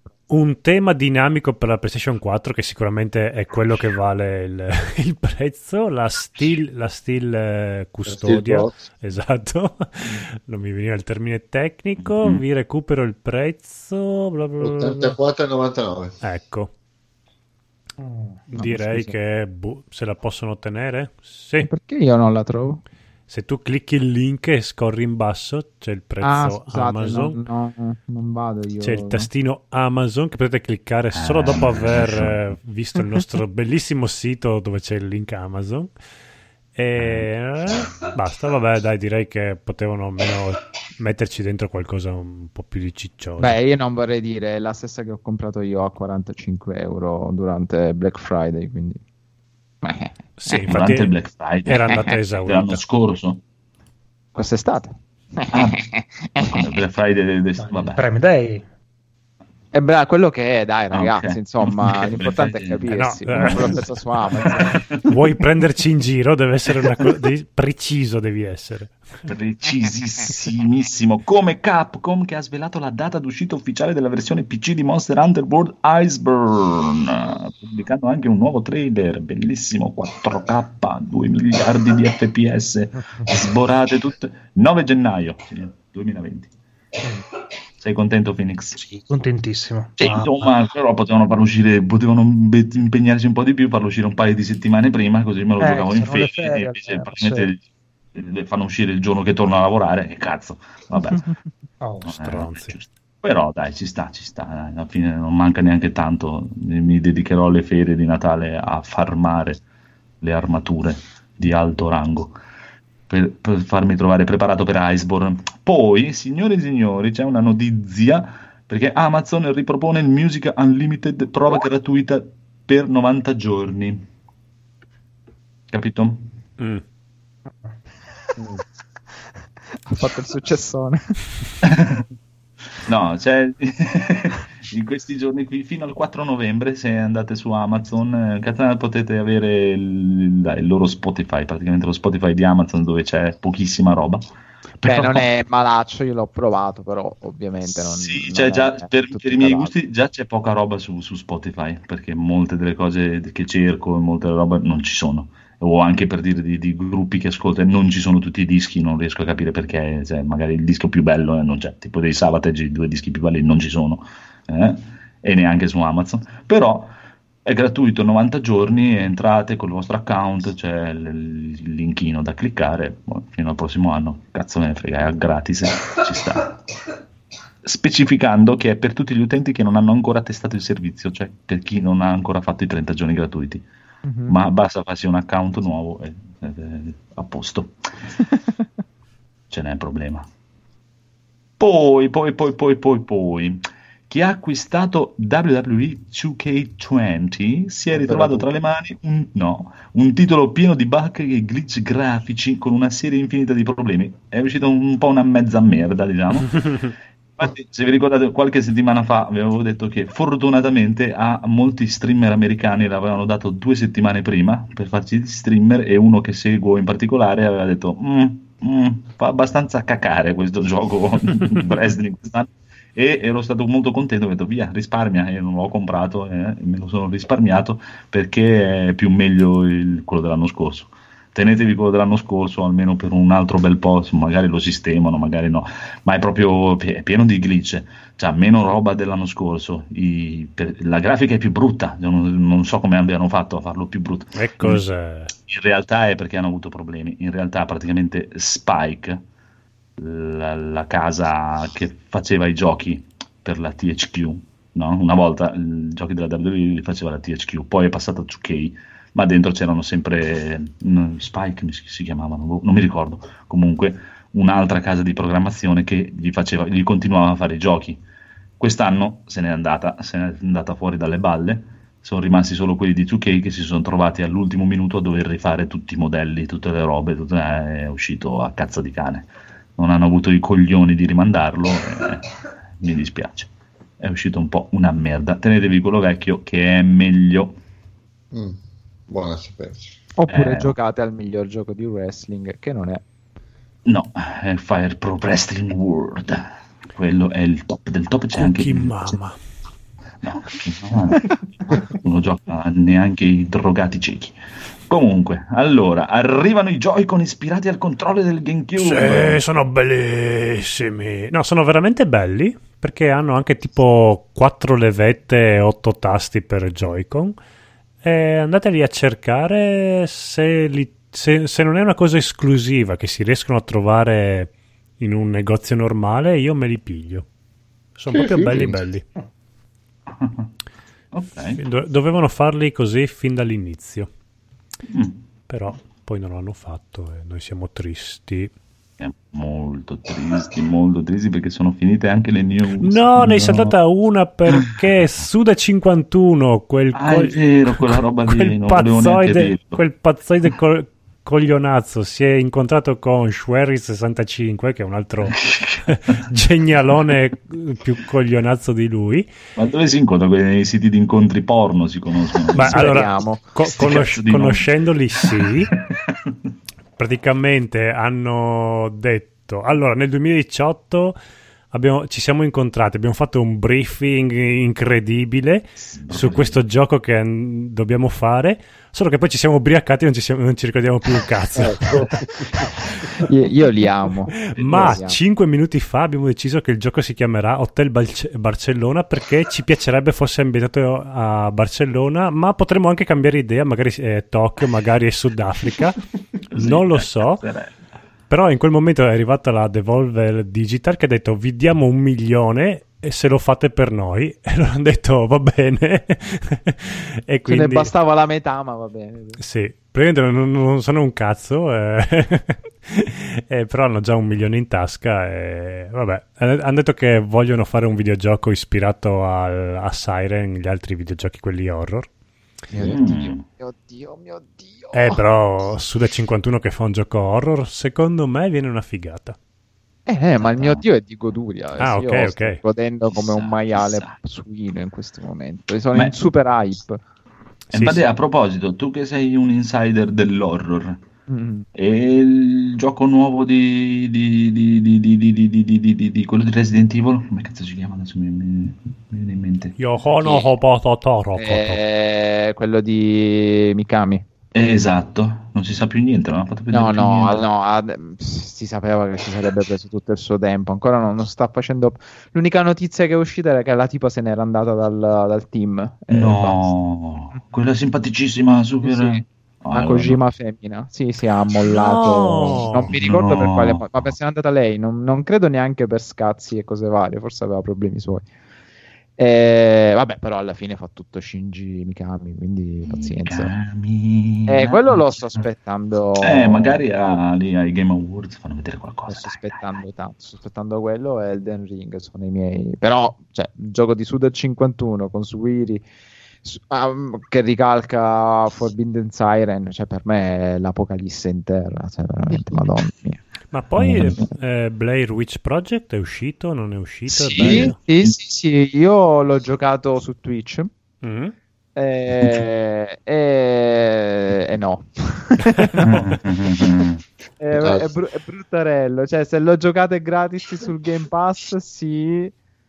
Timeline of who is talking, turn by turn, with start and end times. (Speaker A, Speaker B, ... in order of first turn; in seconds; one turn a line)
Speaker A: 0.3-15.1
Speaker B: 8.1-8.8
Speaker C: 12.0-12.4
Speaker B: 14.6-16.1
Speaker A: 16.2-16.7
Speaker D: 18.0-18.4
Speaker A: 18.5-21.7
Speaker E: 18.6-19.1
Speaker E: 21.6-22.8
Speaker A: 23.3-27.4
Speaker E: 26.2-29.3
Speaker A: 28.8-35.9
Speaker C: 31.1-32.5
Speaker A: 36.7-43.6
Speaker C: 37.0-37.3
Speaker E: 43.4-49.0
Speaker E: 49.8-50.6
Speaker A: 50.4-51.1
Speaker C: 50.7-53.4
Speaker A: 51.6-52.8
Speaker E: 54.4-56.7
Speaker C: 55.5-55.8
Speaker C: 56.5-58.0
Speaker D: 57.6-58.6
Speaker E: 59.7-64.9
Speaker C: 60.9-65.0
Speaker A: 62.9-63.9
Speaker A: 65.0-69.0
Speaker C: 69.3-86.5
Speaker C: 87.8-88.8
Speaker D: 88.8-90.5
Speaker C: 90.0-97.6
Speaker E: 95.6-97.5
Speaker C: 98.1-101.2
Speaker E: 101.0-101.4
Speaker D: 101.8-102.1
Speaker C: 102.0-109.6
Speaker A: 102.0-102.7
Speaker C: 110.2-112.4
Speaker C: 113.1-124.1
Speaker C: 125.7-126.3
Speaker E: 129.9-131.2
Speaker C: 131.6-132.1
Speaker C: 132.8-144.2
Speaker C: 144.8-145.3
Speaker E: 144.8-149.7
Speaker C: 147.6-166.9
Speaker C: 167.4-176.6
Speaker C: 177.6-183.6
Speaker E: 184.1-184.3
Speaker C: 184.3-187.9
Speaker C: 189.5-190.3
Speaker C: 191.6-244.8
Speaker B: 197.9-198.5
Speaker A: 244.4-245.3
Speaker C: 245.4-249.2
Speaker C: 250.0-268.0
Speaker C: 268.6-287.6
Speaker B: 288.3-288.6
Speaker B: 289.1-289.9
Speaker E: 290.2-293.0
Speaker C: 290.3-290.8
Speaker C: 293.9-299.1
Speaker A: 298.4-299.4
Speaker C: 300.2-304.4
Speaker C: 304.9-309.4
Speaker A: 308.8-317.4
Speaker A: 318.0-327.2
Speaker A: 327.9-329.1
Speaker B: 328.1-328.8
Speaker C: 330.1-330.5
Speaker C: 331.1-331.6
Speaker A: 331.6-334.1
Speaker C: 334.9-335.2
Speaker A: 335.5-338.5
Speaker C: 339.0-343.7
Speaker A: 342.8-359.3
Speaker C: 346.9-349.8
Speaker C: 355.3-356.2
Speaker C: 359.6-363.1
Speaker A: 362.5-365.7
Speaker E: 362.6-363.4
Speaker C: 363.7-366.3
Speaker A: 367.0-371.2
Speaker A: 371.7-382.1
Speaker C: 375.9-376.6
Speaker B: 381.6-382.7
Speaker E: 382.6-385.2
Speaker A: 384.5-396.0
Speaker C: 384.6-385.0
Speaker C: 396.5-397.7
Speaker A: 396.5-397.4
Speaker A: 398.3-407.9
Speaker E: 407.5-409.4
Speaker A: 409.4-422.1
Speaker E: 422.7-425.2
Speaker C: 422.8-423.4
Speaker A: 424.9-429.4
Speaker E: 430.1-437.0
Speaker C: 430.4-430.8
Speaker A: 431.8-432.6
Speaker C: 433.1-434.2
Speaker C: 437.7-441.0
Speaker A: 437.7-438.0
Speaker E: 441.3-441.6
Speaker C: 441.7-449.8
Speaker A: 449.8-451.8
Speaker E: 451.4-454.2
Speaker C: 454.5-457.4
Speaker E: 456.7-466.7
Speaker C: 466.1-470.2
Speaker E: 468.8-478.2
Speaker A: 471.7-472.9
Speaker C: 472.9-474.1
Speaker E: 479.2-483.5
Speaker C: 482.8-485.4
Speaker E: 484.5-486.8
Speaker C: 486.2-489.6
Speaker E: 489.1-495.8
Speaker E: 496.4-503.2
Speaker A: 503.5-507.8
Speaker E: 507.1-510.7
Speaker B: 507.4-507.7
Speaker A: 511.0-511.3
Speaker E: 511.8-516.8
Speaker C: 515.8-517.0
Speaker E: 517.4-522.3
Speaker B: 517.5-517.9